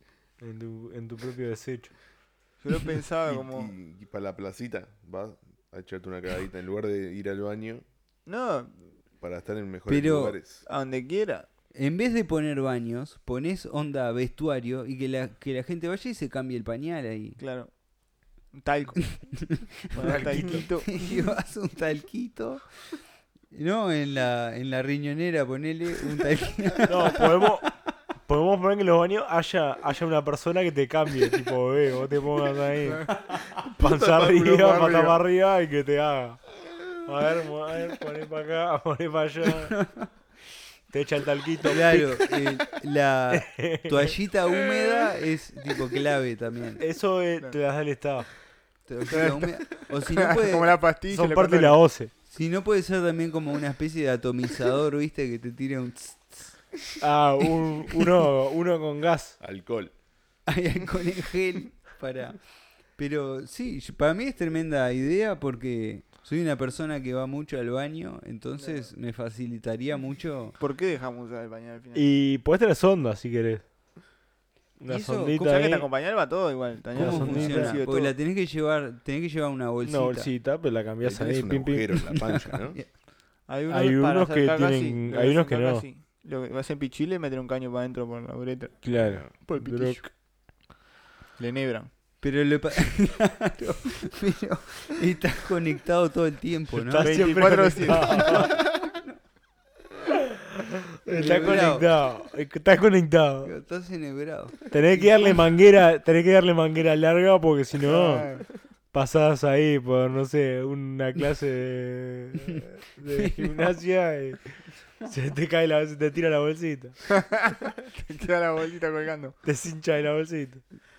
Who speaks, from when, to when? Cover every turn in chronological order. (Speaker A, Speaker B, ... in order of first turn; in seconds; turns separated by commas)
Speaker A: 0.4-1.9, Speaker B: 2.6-3.7, Speaker C: 3.3-7.8, Speaker B: 8.3-8.8, Speaker C: 9.2-10.7, Speaker D: 9.9-10.4, Speaker B: 10.6-11.4, Speaker D: 11.7-17.4, Speaker B: 17.4-17.7, Speaker B: 18.5-21.0, Speaker D: 19.5-22.9, Speaker A: 20.0-20.6, Speaker D: 23.5-27.2, Speaker A: 26.9-27.7, Speaker A: 28.2-39.8, Speaker C: 33.6-35.2, Speaker D: 39.8-40.1, Speaker A: 40.9-42.2, Speaker D: 41.6-46.8, Speaker A: 43.3-44.2, Speaker A: 46.8-48.3, Speaker D: 48.9-50.8, Speaker B: 49.1-51.8, Speaker A: 51.1-52.1, Speaker D: 52.3-56.5, Speaker A: 57.0-59.4, Speaker C: 59.4-59.9, Speaker D: 60.5-62.4, Speaker D: 62.9-70.5, Speaker B: 68.6-68.9, Speaker B: 70.6-72.1, Speaker A: 72.0-73.6, Speaker A: 74.8-75.8, Speaker D: 74.9-75.7, Speaker B: 75.4-78.1, Speaker A: 76.9-77.8, Speaker D: 77.0-80.3, Speaker A: 79.8-81.9, Speaker C: 81.0-82.8, Speaker D: 82.0-82.9, Speaker B: 83.5-90.1, Speaker A: 83.7-85.8, Speaker A: 88.8-90.1, Speaker C: 89.0-89.3, Speaker B: 91.4-91.9, Speaker D: 92.2-97.3, Speaker A: 96.8-98.5, Speaker B: 97.0-98.5, Speaker D: 98.1-99.1, Speaker A: 101.0-103.5, Speaker D: 101.1-101.9, Speaker D: 103.5-104.6, Speaker A: 104.7-108.4, Speaker B: 107.9-108.5, Speaker A: 108.9-117.0, Speaker D: 113.2-113.7, Speaker B: 117.1-119.4, Speaker A: 119.4-120.6